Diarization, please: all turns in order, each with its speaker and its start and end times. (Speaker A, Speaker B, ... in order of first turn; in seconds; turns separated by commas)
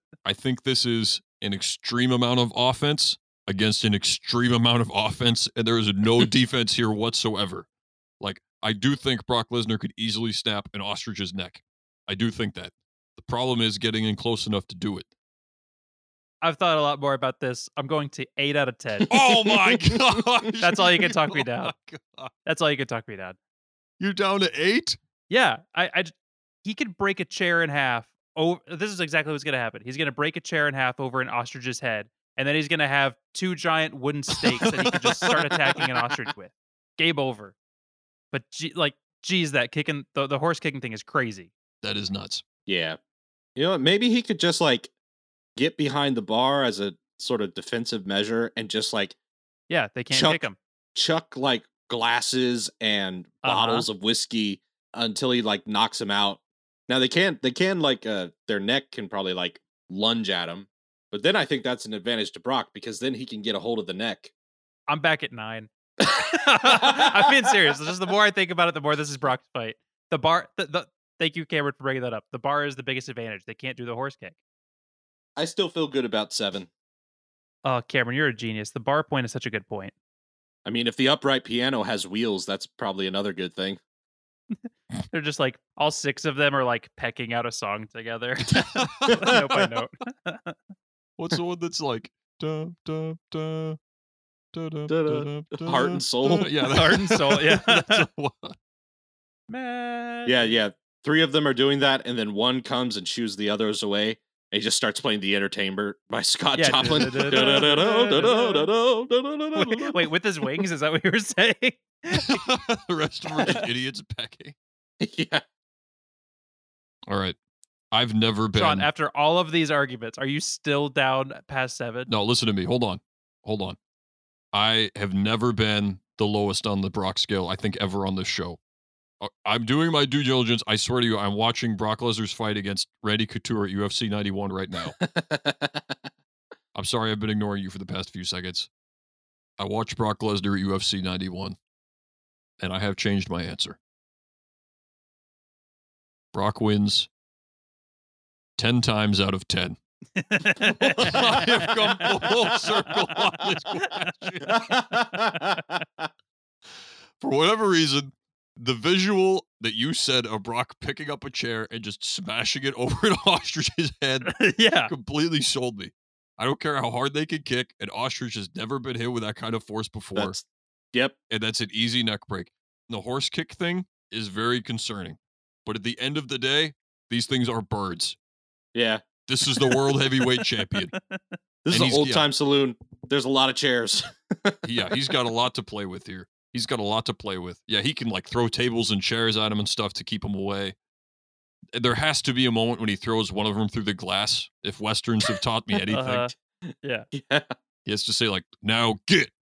Speaker A: 0.2-7.7, Speaker A: 8.2-15.1, Speaker B: 16.4-19.1, Speaker A: 19.1-22.3, Speaker C: 19.2-20.0, Speaker B: 20.6-21.7, Speaker B: 22.4-23.4, Speaker A: 24.0-25.0, Speaker B: 25.3-37.5, Speaker A: 34.6-35.3, Speaker B: 38.3-41.5, Speaker A: 41.8-42.4, Speaker C: 42.7-43.0, Speaker C: 43.5-44.9, Speaker C: 45.5-49.1, Speaker B: 49.7-50.6, Speaker C: 50.1-64.3, Speaker B: 53.4-53.9, Speaker B: 64.9-74.4, Speaker C: 66.7-67.1, Speaker C: 75.4-76.7, Speaker B: 77.6-79.9, Speaker C: 80.6-83.8, Speaker B: 84.6-90.6, Speaker A: 88.8-89.4, Speaker A: 91.2-93.8, Speaker A: 94.5-98.5, Speaker C: 94.9-96.6, Speaker B: 96.6-98.0, Speaker B: 99.5-100.6, Speaker C: 100.2-110.1, Speaker B: 106.5-108.7, Speaker B: 109.5-112.5, Speaker A: 112.1-114.5, Speaker C: 115.0-115.4, Speaker A: 117.1-117.4, Speaker A: 117.9-118.9, Speaker B: 118.5-122.1, Speaker A: 122.1-123.8, Speaker A: 124.5-128.6, Speaker A: 129.2-135.0, Speaker C: 135.0-135.9, Speaker A: 136.7-138.7, Speaker A: 139.6-141.6, Speaker A: 142.6-143.8, Speaker A: 146.3-147.1, Speaker A: 148.6-149.8, Speaker B: 150.1-151.1, Speaker C: 150.8-151.4, Speaker A: 151.0-154.7, Speaker C: 154.6-155.2, Speaker B: 154.9-155.6, Speaker A: 157.2-170.4, Speaker B: 164.2-164.9, Speaker C: 170.1-171.2, Speaker A: 171.3-178.2, Speaker C: 178.7-179.0, Speaker A: 179.3-180.9, Speaker B: 180.2-181.4, Speaker C: 181.6-184.6, Speaker A: 181.7-182.2, Speaker A: 184.6-190.8, Speaker A: 191.7-196.3, Speaker B: 195.8-197.1, Speaker C: 196.7-197.5, Speaker A: 197.8-199.3